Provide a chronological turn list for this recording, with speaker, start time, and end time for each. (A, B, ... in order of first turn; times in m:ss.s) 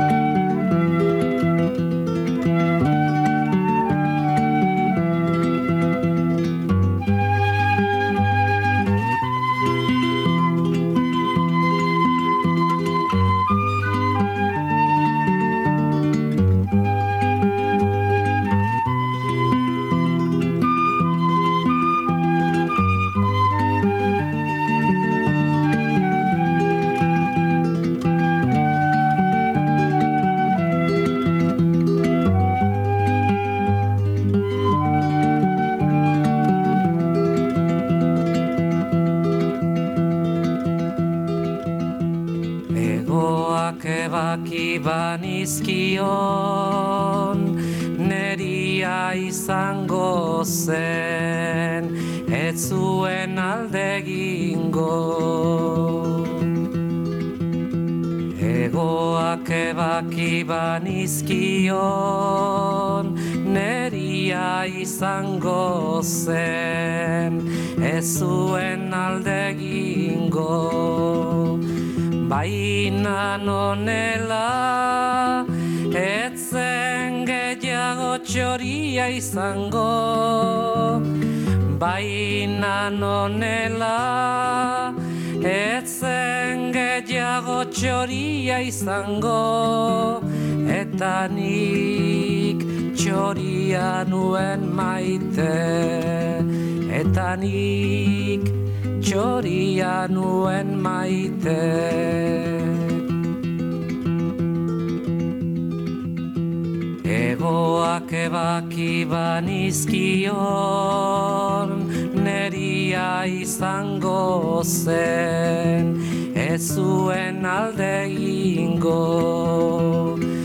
0:42.7-0:56.5 A
0:58.3-1:11.6 A
1:12.2-1:43.0 A
1:47.0-2:00.2 A